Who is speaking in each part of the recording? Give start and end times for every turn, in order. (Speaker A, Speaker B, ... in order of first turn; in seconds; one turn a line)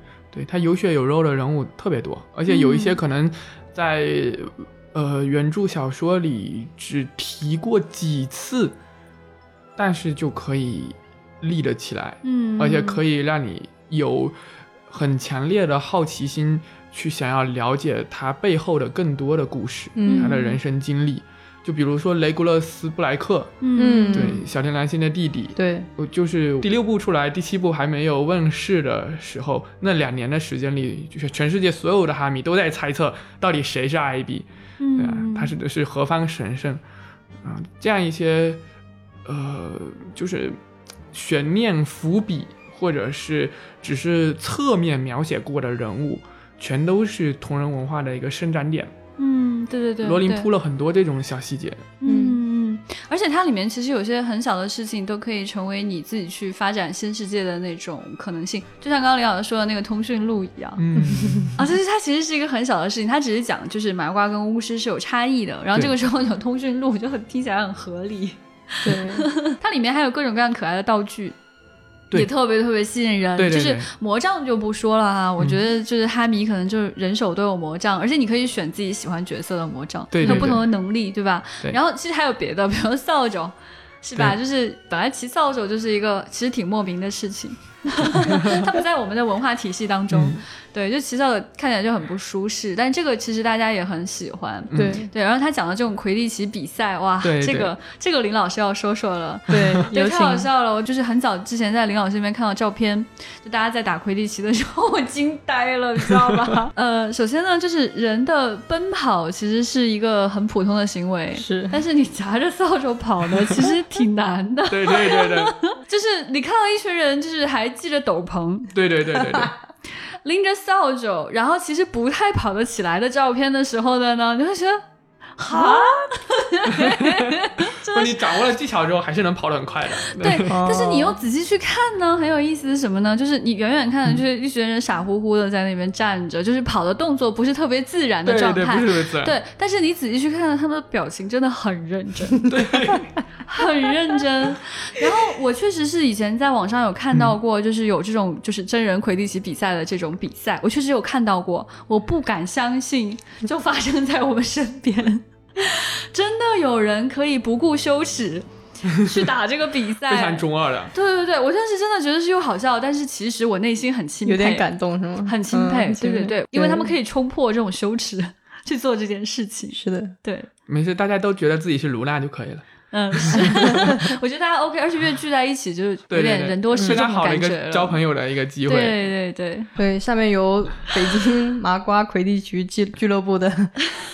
Speaker A: 0.3-8.8
Speaker B: 2.5-3.0
Speaker A: 9.8-14.3
Speaker B: 12.2-13.0
Speaker A: 14.9-23.6
Speaker C: 20.0-20.3
Speaker B: 20.1-20.6
Speaker B: 23.6-24.4
Speaker C: 23.8-24.4
Speaker A: 24.1-34.5
Speaker C: 25.6-25.9
Speaker B: 34.8-35.5
Speaker A: 35.0-36.8
Speaker A: 37.4-38.6
Speaker A: 39.3-40.6
Speaker A: 41.1-48.9
Speaker B: 49.2-50.5
Speaker A: 50.0-51.9
Speaker B: 52.0-60.8
Speaker C: 52.1-52.4
Speaker A: 60.8-61.6
Speaker C: 61.0-61.5
Speaker B: 61.6-71.4
Speaker C: 68.8-69.3
Speaker B: 72.1-118.7
Speaker A: 73.4-73.9
Speaker A: 80.1-80.7
Speaker C: 80.2-80.6
Speaker A: 88.2-88.6
Speaker A: 90.1-90.4
Speaker A: 94.7-95.0
Speaker C: 94.7-95.1
Speaker A: 97.2-97.7
Speaker C: 99.5-100.5
Speaker A: 99.5-99.8
Speaker C: 111.4-111.8
Speaker A: 114.7-115.5
Speaker A: 118.7-119.5
Speaker B: 120.2-124.8
Speaker B: 125.4-128.4
Speaker C: 125.5-126.0
Speaker A: 126.8-130.6
Speaker B: 130.1-142.5
Speaker C: 130.5-131.2
Speaker A: 138.3-139.4
Speaker A: 142.4-143.1
Speaker B: 143.4-164.7
Speaker A: 158.9-159.3
Speaker A: 160.1-160.9
Speaker C: 164.3-166.9
Speaker B: 165.2-170.5
Speaker C: 169.7-170.2
Speaker A: 170.7-172.7
Speaker B: 172.9-178.0
Speaker A: 173.2-173.5
Speaker A: 176.1-179.0
Speaker B: 178.7-179.7
Speaker C: 179.8-183.8